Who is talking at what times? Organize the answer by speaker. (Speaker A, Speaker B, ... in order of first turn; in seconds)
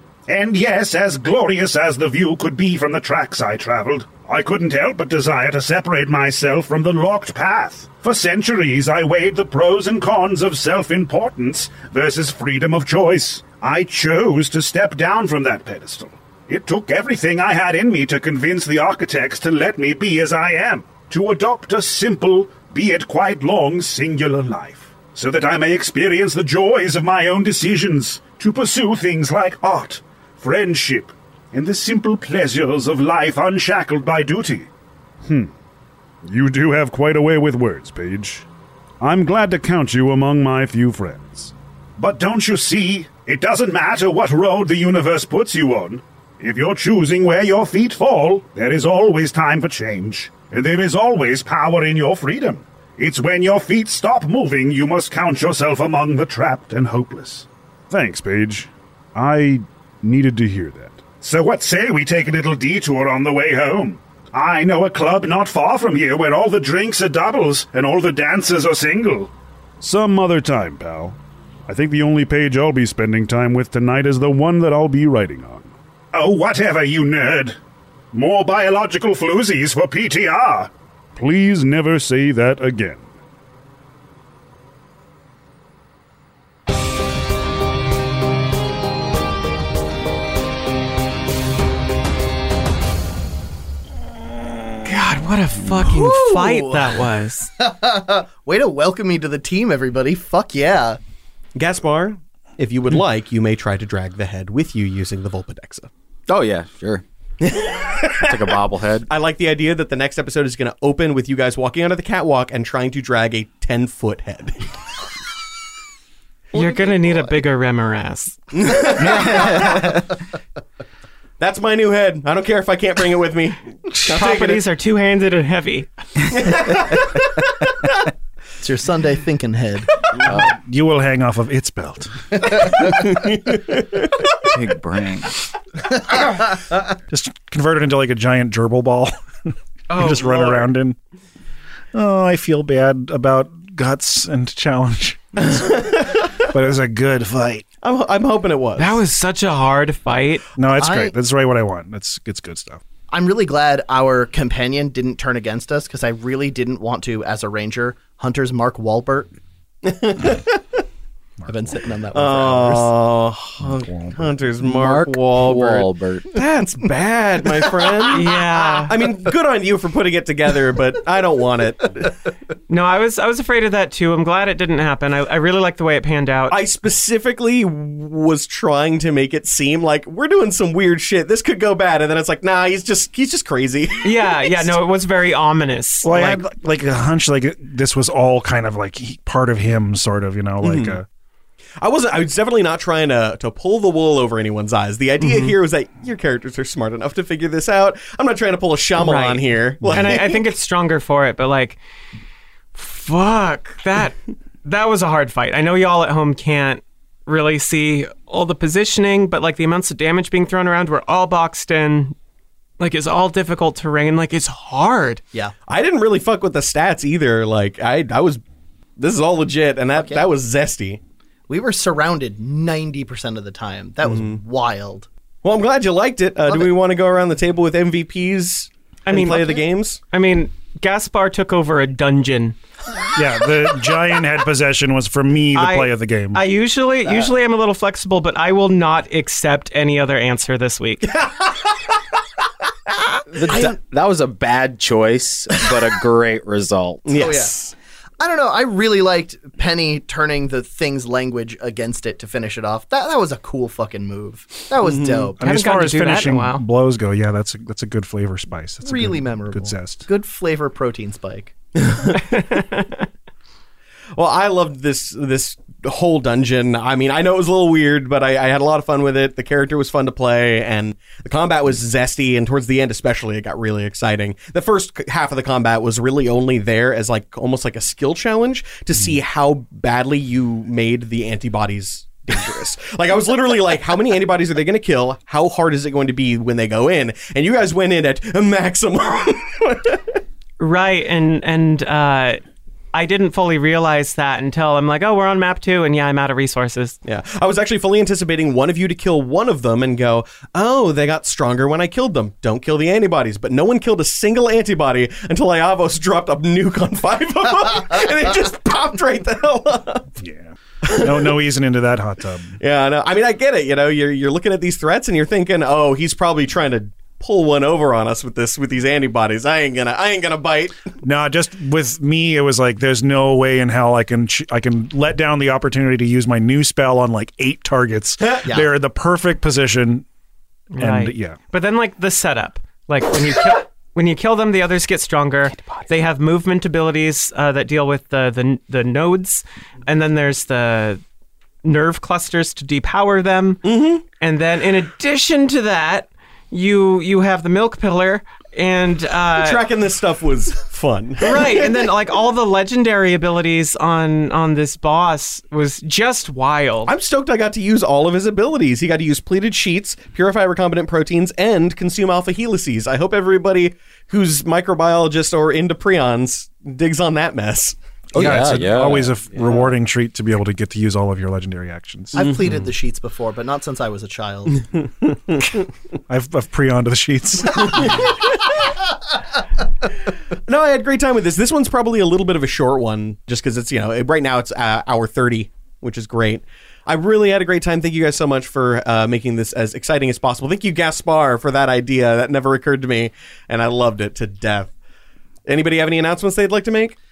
Speaker A: 0.3-34.7, 42.0-57.5, 61.2-69.3, 76.1-77.5, 78.1-80.7
Speaker B: 36.2-38.5, 39.0-41.5, 57.9-61.1, 69.8-75.7, 81.1-83.1
Speaker C: 94.8-97.5, 116.5-118.4, 124.0-125.9, 139.9-140.7, 148.8-150.5, 168.1-168.9, 172.7-176.6, 184.0-186.4, 195.2-195.6, 198.9-201.8, 202.7-212.2, 212.8-215.2, 229.1-232.6, 235.5-241.2, 255.4-256.6, 262.2-263.0, 290.6-292.4, 292.9-297.0, 330.7-341.0, 341.6-349.6, 351.2-356.9
Speaker D: 95.8-97.1, 97.6-101.0, 128.6-130.1, 132.5-132.8, 150.7-151.1, 153.1-159.3, 161.4-162.9, 219.9-220.2, 221.5-225.1, 247.2-247.5, 248.2-255.4, 258.8-261.5, 372.1-374.8
Speaker E: 101.5-105.9, 107.4-114.7, 118.5-120.0, 121.4-124.6, 126.3-127.1, 132.9-134.1, 145.4-146.4, 147.8-149.0, 159.8-160.6, 162.1-172.1, 176.5-184.7, 190.6-191.0, 191.8-200.4, 215.7-218.4, 219.0-221.0, 224.0-224.4, 225.4-230.0, 241.1-241.7, 243.3-243.7, 247.0-247.7, 254.8-255.3, 261.8-262.2, 264.1-290.0, 297.0-310.1, 310.8-311.4, 312.6-320.8, 328.2-328.4, 343.6-344.0, 349.3-351.8, 356.9-367.8, 372.1-372.6, 380.4-394.7, 395.4-397.0
Speaker F: 106.3-107.0, 108.2-109.0, 119.0-120.1, 134.4-135.4, 164.6-166.3, 243.3-247.2, 368.1-369.2
Speaker G: 130.3-132.7, 137.1-141.0, 141.9-147.7, 150.6-152.8, 161.4-161.8, 163.6-164.3, 186.0-191.0, 233.1-236.4, 255.4-260.1, 310.2-312.6, 321.0-330.1, 330.8-331.4, 368.1-372.2, 376.1-378.0